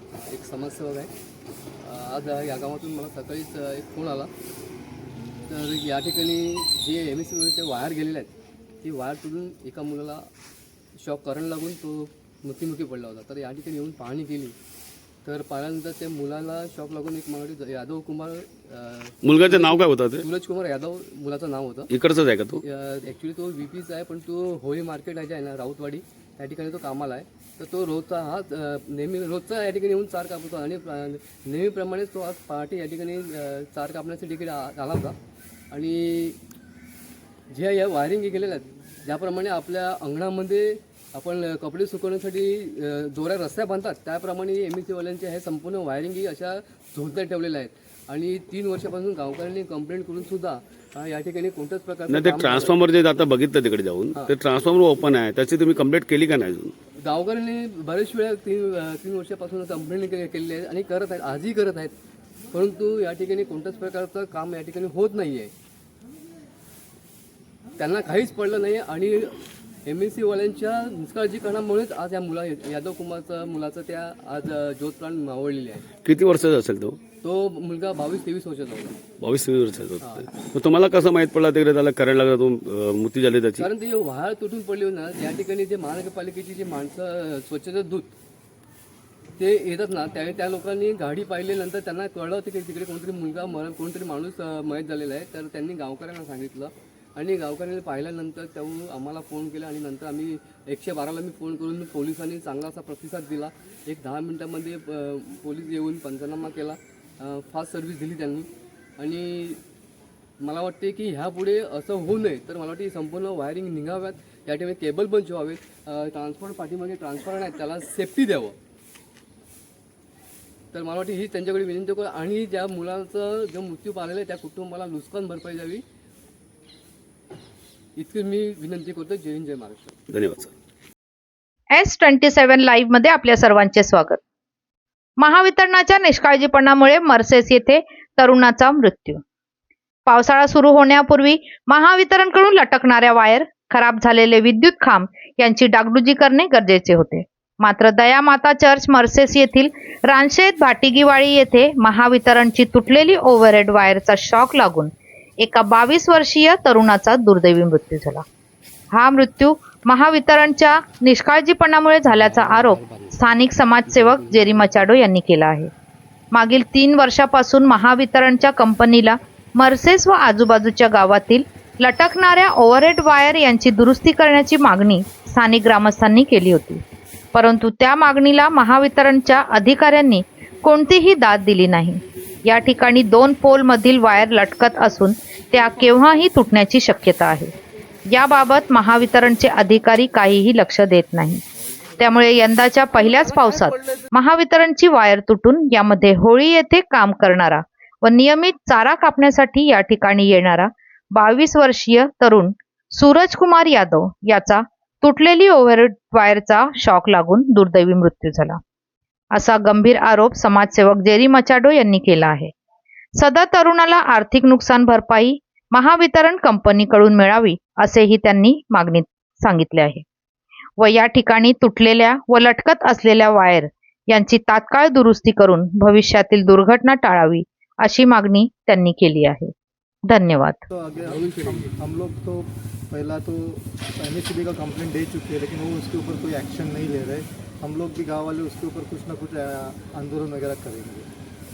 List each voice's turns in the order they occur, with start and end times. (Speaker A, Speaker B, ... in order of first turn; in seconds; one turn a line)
Speaker A: 0.2-1.1
Speaker A: 1.8-4.3
Speaker A: 5.5-10.3
Speaker A: 11.0-14.6
Speaker A: 15.2-21.9
Speaker B: 19.2-20.2
Speaker B: 21.9-22.6
Speaker A: 22.6-35.2
Speaker A: 35.7-36.4
Speaker A: 37.5-52.7
Speaker B: 52.1-56.7
Speaker A: 57.0-61.9
Speaker A: 62.5-65.5
Speaker A: 67.8-75.9
Speaker B: 76.0-77.0
Speaker A: 77.2-79.0
Speaker B: 79.2-83.7
Speaker A: 80.0-80.3
Speaker A: 83.6-88.1
Speaker A: 89.4-108.5
Speaker A: 109.0-109.6
Speaker A: 110.4-118.6
Speaker A: 120.7-125.8
Speaker A: 128.0-129.9
Speaker B: 130.1-130.5
Speaker C: 131.7-134.2
Speaker C: 135.2-139.2
Speaker C: 140.1-158.2
Speaker C: 158.9-165.7
Speaker A: 162.1-163.2
Speaker A: 163.9-164.9
Speaker C: 166.3-176.8
Speaker C: 177.3-187.5
Speaker C: 188.1-191.4
Speaker C: 192.0-208.6
Speaker C: 209.3-212.5
Speaker C: 213.2-220.0
Speaker C: 220.8-229.5
Speaker C: 230.1-230.6
Speaker D: 230.7-241.1
Speaker A: 231.0-231.8